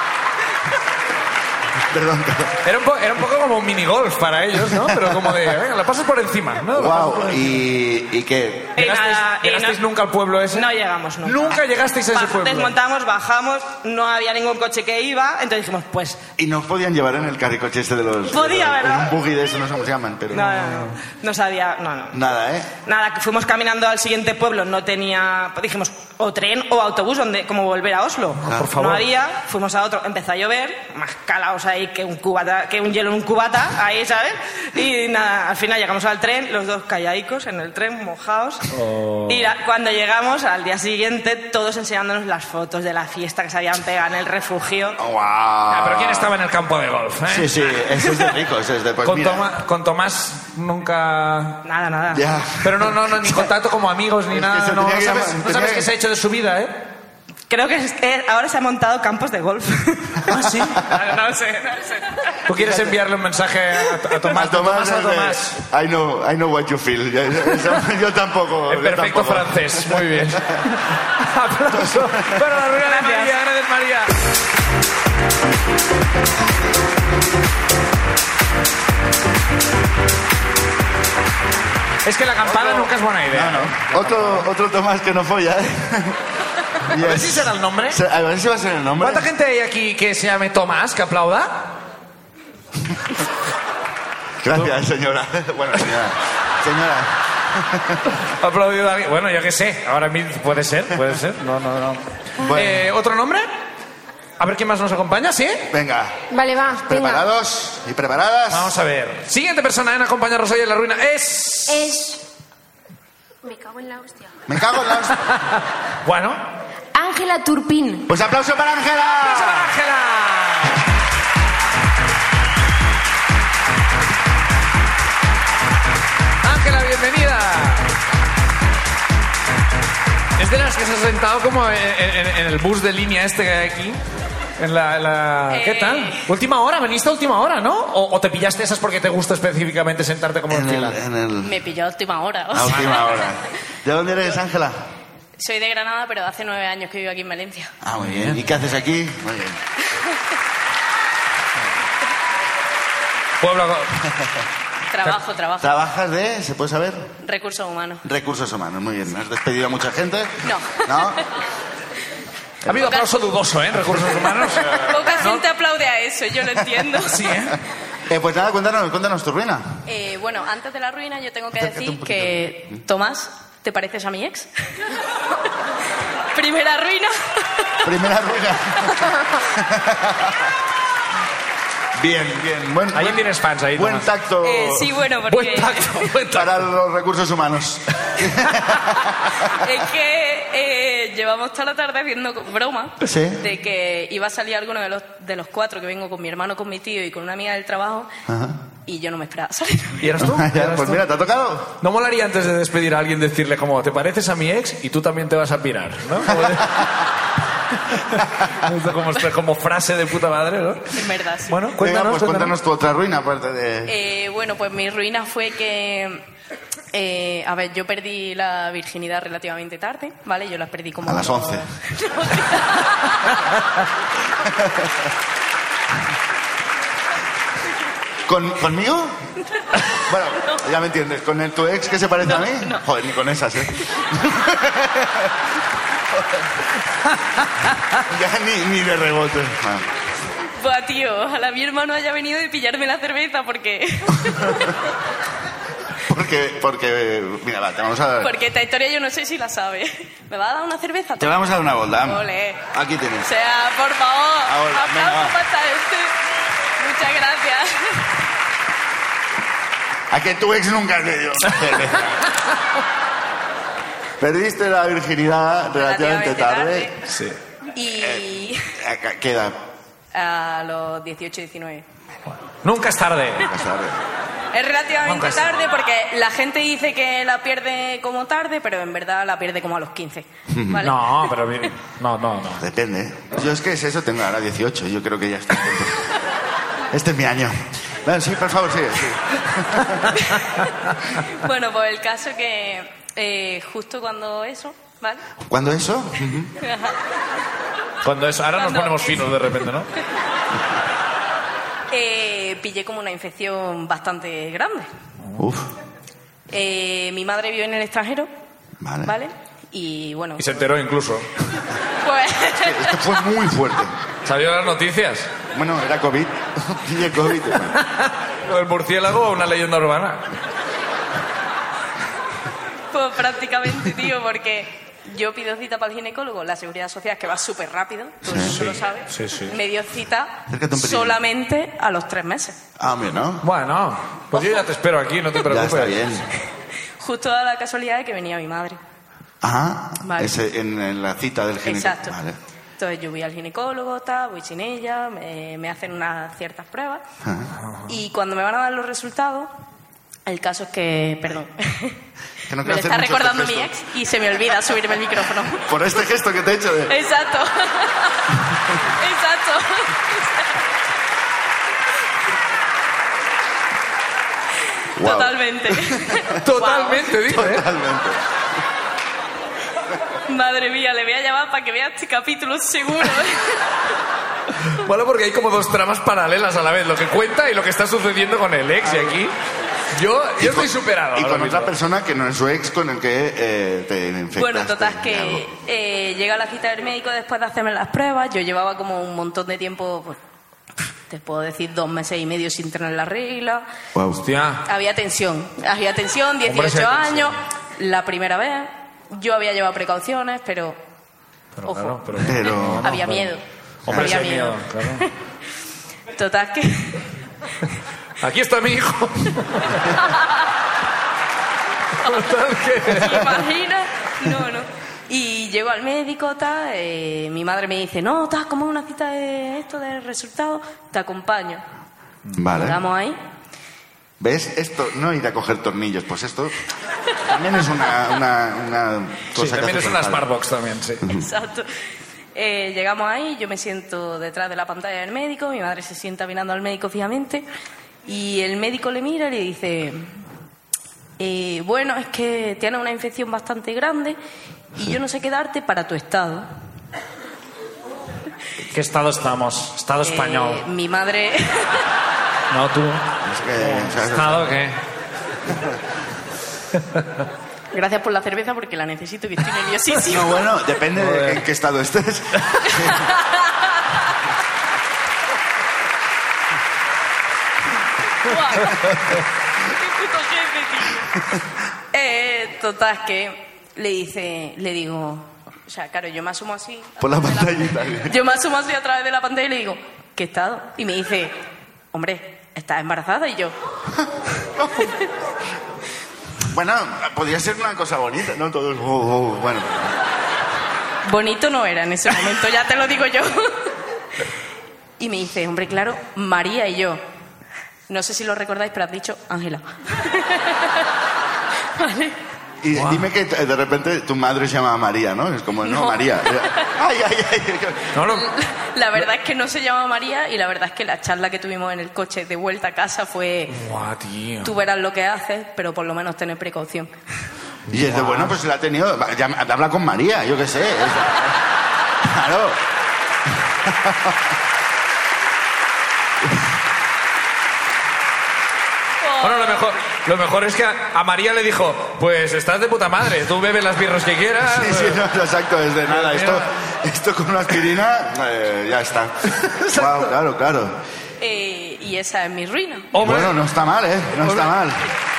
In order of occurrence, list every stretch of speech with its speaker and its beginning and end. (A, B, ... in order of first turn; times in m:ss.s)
0:01.8-0:02.6 A
0:02.6-0:07.5 B
0:04.8-0:05.3 A
0:06.7-0:08.8 A
0:08.8-0:09.8 C
0:08.8-0:10.6 B
0:10.5-0:16.2 C
0:11.2-0:12.7 B
0:16.4-0:20.6 A
0:18.2-0:19.2 C
0:20.3-0:22.2 C
0:22.1-0:22.7 A
0:22.8-0:38.7 C
0:28.4-0:28.7 A
0:28.5-0:29.0 B
0:38.7-0:39.5 B
0:39.3-0:45.0 C
0:45.0-0:46.3 A
0:45.7-0:47.6 B
0:47.3-0:49.5 A
0:48.0-0:48.3 C
0:49.0-0:51.6 B
0:51.6-0:52.3 C
0:52.1-0:53.5 A
0:52.6-0:56.8 B
0:54.3-0:55.9 A
0:57.5-1:02.4 C
1:00.3-1:00.8 B
1:02.5-1:05.6 B
1:02.6-1:03.0 A
1:04.3-1:10.6 A
1:08.7-1:14.1 B
1:11.7-1:12.4 A
1:12.8-1:13.4 C
1:22.0-1:24.4 B
1:22.4-1:26.2 A
1:26.8-1:29.3 A
1:26.9-1:28.0 B
1:29.0-1:31.7 B
1:34.4-1:38.0 A
1:38.2-1:43.4 B
1:42.4-1:42.9 A
1:44.4-1:45.6 B
1:45.7-1:46.2 A
1:46.3-1:47.2 D
1:46.7-1:48.7 A
1:48.5-1:51.8 B
1:51.7-1:52.2 D
1:53.4-1:54.3 D
1:54.5-1:55.2 A
1:55.2-1:56.4 B
1:56.9-1:58.1 D
1:58.1-1:59.7 A
1:59.2-2:00.7 B
2:06.4-2:07.9 B
2:10.4-2:14.0 B
2:14.6-2:21.0 B
2:15.5-2:16.2 E
2:20.5-2:21.5 A
2:21.4-2:23.3 E
2:22.5-2:24.8 A
2:22.7-2:22.9 B
2:25.4-2:27.7 E
2:27.8-2:29.6 A
2:28.0-2:28.4 B
2:33.4-2:34.0 B
2:34.9-2:35.7 E
2:35.6-2:37.1 A
2:37.2-2:38.0 E
2:38.0-2:41.2 A
2:40.4-2:41.2 E
2:42.6-2:42.9 A
2:42.6-2:45.4 B
2:42.8-2:43.1 E
2:44.9-2:47.2 E
2:47.0-2:47.6 B
2:48.1-2:49.6 A
2:49.9-2:54.5 E
2:51.6-2:52.8 A
2:56.3-2:57.9 E
2:57.8-3:00.5 A
3:02.0-3:04.9 A
3:02.9-3:04.1 B
3:04.4-3:06.1 E
3:05.3-3:06.6 B
3:06.3-3:09.3 A
3:09.6-3:18.1 E
3:13.0-3:13.4 A
3:18.3-3:18.6 A
3:18.8-3:20.0 E
3:20.0-3:21.0 B
3:20.2-3:21.7 A
3:21.8-3:26.8 B
3:26.3-3:26.6 A
3:27.9-3:32.5 B
3:30.9-3:31.5 E
3:31.8-3:34.0 A
3:33.9-3:36.2 E
3:36.9-3:43.3 E
3:41.0-3:41.7 A
3:44.4-3:44.9 A
3:48.2-3:49.2 A
3:50.0-3:55.3 A
3:52.2-3:52.8 E
3:58.1-3:59.9 A
4:00.6-4:04.7 E
4:04.3-4:04.7 A
4:06.0-4:08.4 A
4:08.2-4:11.4 E
4:11.2-4:13.3 A
4:11.9-4:12.6 E
4:13.2-4:16.1 E
4:14.4-4:15.4 A
4:16.8-4:18.1 E
4:20.1-4:22.1 A
4:24.2-4:27.0 A
4:25.7-4:27.0 E
4:27.0-4:27.4 B
4:27.7-4:28.6 E
4:28.0-4:29.6 A
4:30.1-4:31.8 E
4:32.6-4:33.5 B
4:33.4-4:34.0 A
4:34.5-4:41.3 E
4:35.0-4:35.6 B
4:40.5-4:40.9 A
4:40.8-4:42.6 B
4:42.6-4:46.0 A
4:46.9-4:50.0 A
4:51.4-4:55.2 E
4:55.4-4:56.5 A
4:56.6-4:56.9 E
4:58.0-4:59.9 B
4:58.6-4:59.3 E
5:01.9-5:04.9 E
5:05.4-5:05.7 A
5:06.5-5:08.3 E
5:08.8-5:09.1 A
5:09.0-5:10.4 E
5:10.4-5:11.3 B
5:12.0-5:13.1 E
5:12.5-5:13.9 A
5:14.2-5:15.3 B
5:15.5-5:17.8 A
5:17.8-5:20.2 B
5:22.9-5:32.6 E
5:28.2-5:28.6 A
5:28.3-5:29.6 B
5:30.5-5:31.2 A
5:32.8-5:33.4 A
5:33.4-5:36.1 B
5:35.5-5:36.2 A
5:37.0-5:38.8 E
5:39.4-5:42.4 A
5:40.0-5:40.4 E
5:41.6-5:42.1 E
5:42.8-5:47.0 E
5:47.2-5:47.5 A
5:47.9-5:49.5 E
5:50.3-5:52.0 E
5:52.5-5:53.8 A
5:52.6-5:55.6 E
5:55.6-5:56.9 A
5:56.9-6:00.6 E
6:05.0-6:06.2 A
6:05.0-6:07.1 E
6:06.4-6:07.6 B
6:07.2-6:08.2 A
6:10.3-6:13.6 E
6:14.7-6:19.3 B
6:19.9-6:21.7 B
6:20.4-6:25.4 A
6:24.4-6:30.2 E
6:31.1-6:33.7 E
6:33.9-6:34.2 A
6:34.1-6:34.6 B
6:34.6-6:40.8 E
6:36.4-6:37.3 B
6:41.6-6:43.3 B
6:41.6-6:42.2 E
6:42.2-6:42.9 A
6:42.8-6:45.1 E
6:43.8-6:45.0 B
6:43.9-6:44.2 A
6:46.1-6:47.0 E
6:48.2-6:49.8 B
6:52.0-6:53.3 B
6:52.8-7:01.6 E
7:02.4-7:02.8 A
7:02.5-7:03.2 E
7:04.2-7:06.5 A
7:07.3-7:10.3 A
7:09.4-7:11.0 B
7:11.1-7:11.7 E
7:12.3-7:17.4 E
7:18.0-7:20.1 E
7:21.2-7:24.2 E
7:24.7-7:26.5 E
7:28.7-7:30.6 B
7:30.0-7:31.8 E
7:32.5-7:33.0 B
7:33.2-7:34.5 A
7:33.6-7:34.8 B
7:37.7-7:40.4 E
7:40.1-7:43.0 A
7:41.0-7:41.4 B
7:42.7-7:43.4 E
7:48.2-7:48.8 E
7:49.7-7:51.1 E
7:51.9-8:01.3 E
7:57.0-7:58.1 A
8:01.9-8:03.5 E
8:04.6-8:04.9 A
8:06.5-8:09.8 A
8:11.0-8:13.7 E
8:15.0-8:17.0 E
8:17.9-8:20.8 E
8:21.8-8:22.2 E
8:22.6-8:28.0 A
8:22.7-8:23.0 B
8:25.6-8:26.7 E
8:27.9-8:28.3 B
8:28.2-8:33.5 E
8:33.5-8:34.5 B
8:34.4-8:36.9 E
8:37.7-8:38.3 B
8:37.7-8:41.3 A
8:42.0-8:42.6 A
8:43.6-8:44.1 A
8:49.0-8:49.7 E
8:49.2-8:55.0 B
8:54.4-9:00.8 A
8:55.9-8:56.5 B
8:59.5-9:00.1 B
9:01.2-9:02.9 E
9:02.9-9:03.3 B
9:03.0-9:04.8 A
9:04.2-9:04.5 B